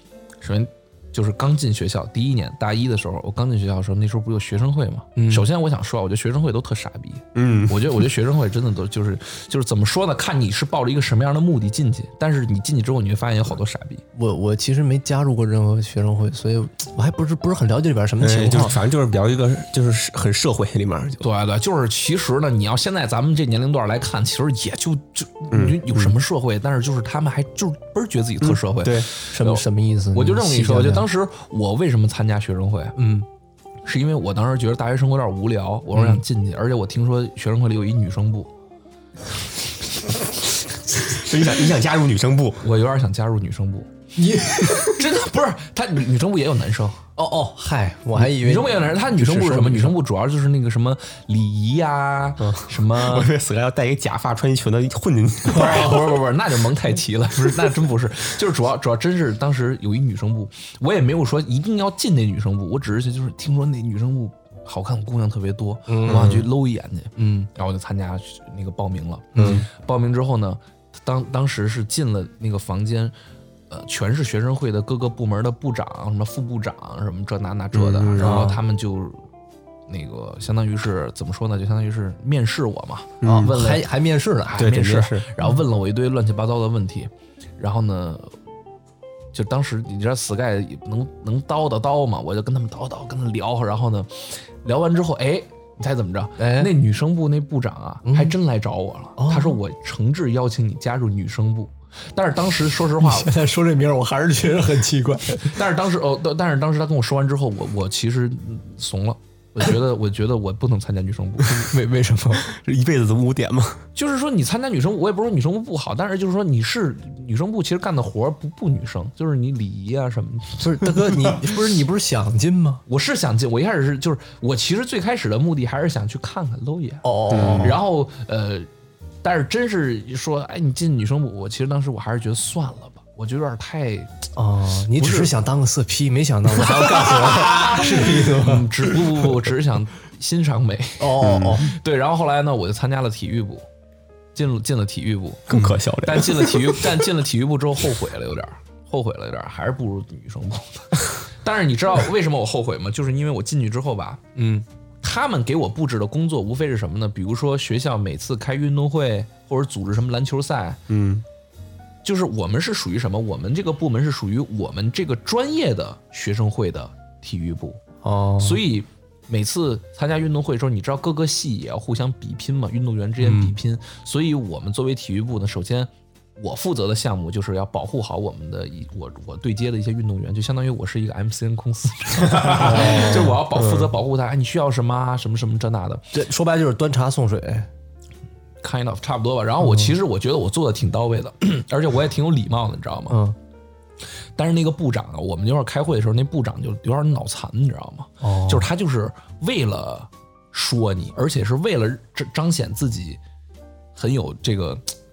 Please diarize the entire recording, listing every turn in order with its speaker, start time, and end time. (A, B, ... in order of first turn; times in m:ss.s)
0:00.4-0:14.0 A
0:05.2-0:05.5 B
0:07.4-0:08.1 C
0:14.1-0:18.8 B
0:18.2-0:21.2 C
0:21.2-0:33.0 A
0:25.5-0:26.1 C
0:28.4-0:29.1 C
0:29.3-0:31.1 B
0:33.0-0:33.3 B
0:33.8-0:38.5 A
0:41.1-0:42.6 C
0:42.6-0:43.9 A
0:44.2-0:45.1 B
0:44.6-0:47.1 A
0:47.2-0:50.0 B
0:48.2-0:53.3 A
0:52.4-0:56.0 C
0:55.5-1:13.1 A
0:55.7-0:56.0 B
1:05.9-1:06.5 B
1:06.1-1:06.4 C
1:07.2-1:07.5 B
1:09.4-1:09.7 B
1:09.4-1:09.7 C
1:13.7-1:19.2 A
1:17.7-1:18.5 C
1:18.2-1:18.6 B
1:19.9-1:23.8 A
1:23.2-1:23.5 C
1:23.2-1:24.6 B
1:24.5-1:28.4 A
1:24.6-1:25.3 C
1:29.3-1:43.3 A
1:36.4-1:36.7 B
1:38.0-1:38.4 B
1:39.2-1:39.6 B
1:43.0-1:45.6 B
1:45.4-1:51.7 A
1:51.5-1:52.4 B
1:52.4-1:53.9 C
1:54.0-2:01.4 A
2:00.6-2:02.8 B
2:02.9-2:08.7 A
2:07.0-2:07.8 B
2:07.3-2:07.8 C
2:09.2-2:14.2 A
2:14.4-2:19.0 B
2:15.0-2:15.3 A
2:16.8-2:23.6 A
2:21.0-2:21.7 B
2:21.2-2:21.7 C
2:24.4-2:34.3 A
2:25.5-2:27.0 C
2:34.4-2:34.6 B
2:35.0-2:40.8 A
2:40.9-2:41.2 C
2:42.0-2:47.8 A
2:48.0-2:48.6 B
2:48.4-3:06.0 A
2:53.2-2:53.6 B
3:02.4-3:03.9 C
3:02.5-3:03.4 B
3:06.1-3:07.7 B
3:08.6-3:13.2 A
3:09.6-3:09.9 B
3:13.1-3:13.4 B
3:14.4-3:23.2 A
3:18.2-3:18.7 B
3:24.0-3:24.9 A